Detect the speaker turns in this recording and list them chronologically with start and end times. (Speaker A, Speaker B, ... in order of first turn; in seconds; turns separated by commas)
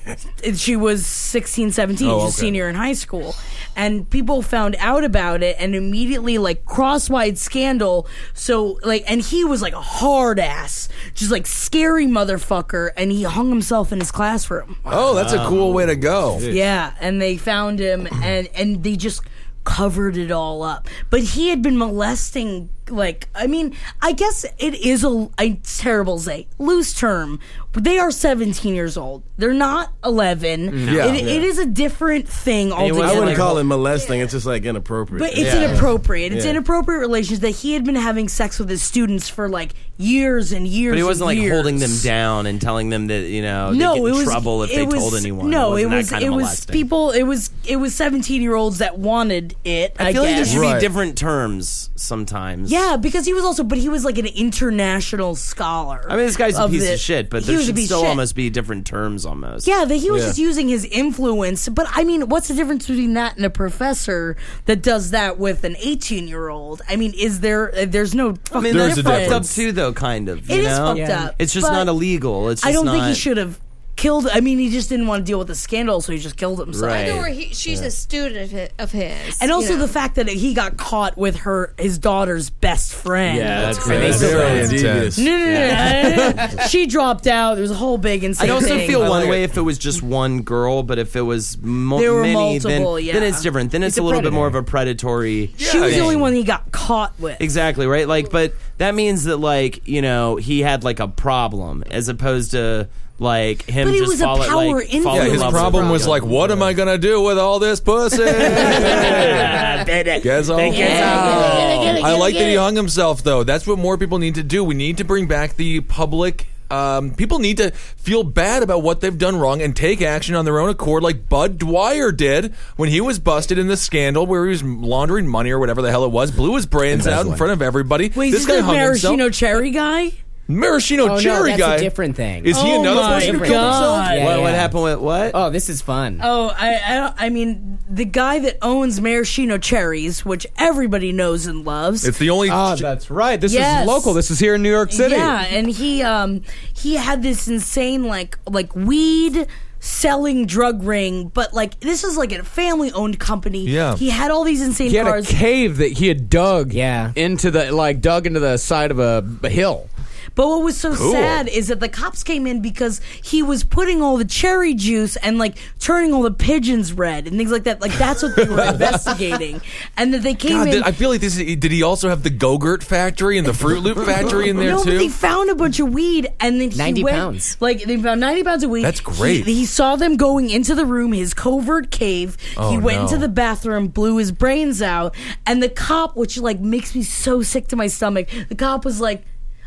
Speaker A: 0.4-14.9, Speaker B: 2.0-2.6, Speaker B: 14.9-16.5, Speaker C: 15.1-15.9, Speaker A: 16.5-33.6, Speaker B: 30.9-31.3, Speaker C: 30.9-31.1, Speaker D: 31.2-31.4, Speaker C: 32.8-33.6, Speaker D: 33.0-36.6, Speaker E: 33.8-34.3, Speaker A: 35.1-42.0, Speaker C: 35.4-35.8, Speaker C: 40.9-46.9, Speaker A: 43.7-50.6, Speaker C: 50.0-52.8, Speaker B: 50.4-50.9, Speaker A: 52.7-58.2, Speaker C: 56.1-59.7, Speaker A: 59.6-69.5, Speaker C: 68.5-73.2, Speaker B: 68.6-69.6, Speaker A: 70.5-71.9, Speaker F: 70.9-71.3, Speaker A: 72.6-77.2, Speaker C: 76.7-77.3, Speaker E: 76.9-79.9, Speaker A: 79.4-89.3, Speaker D: 83.3-86.2, Speaker F: 83.6-84.8, Speaker C: 83.6-84.8, Speaker B: 83.7-85.3, Speaker F: 85.5-86.5, Speaker C: 88.4-96.2, Speaker B: 88.8-89.5, Speaker A: 91.9-93.5, Speaker F: 93.8-94.5, Speaker B: 95.6-96.3, Speaker A: 95.6-97.5, Speaker C: 97.4-106.7, Speaker A: 103.8-106.2, Speaker B: 105.1-109.6, Speaker C: 108.3-112.1, Speaker B: 110.2-129.2, Speaker A: 110.6-112.6, Speaker E: 111.7-112.6, Speaker G: 126.9-127.5, Speaker A: 128.1-130.2, Speaker B: 130.5-134.2, Speaker F: 131.0-136.2, Speaker A: 132.5-134.4, Speaker C: 134.1-135.4, Speaker A: 136.2-142.1, Speaker B: 142.0-142.9, Speaker G: 142.5-145.4, Speaker A: 143.5-144.2, Speaker A: 144.9-155.4, Speaker B: 153.6-154.0, Speaker G: 154.8-159.9, Speaker F: 156.7-157.1, Speaker A: 160.3-170.9, Speaker B: 160.9-161.4, Speaker B: 168.4-169.1, Speaker B: 170.4-175.1, Speaker A: 174.5-189.2, Speaker F: 176.7-177.5, Speaker B: 178.8-179.5, Speaker B: 182.6-183.3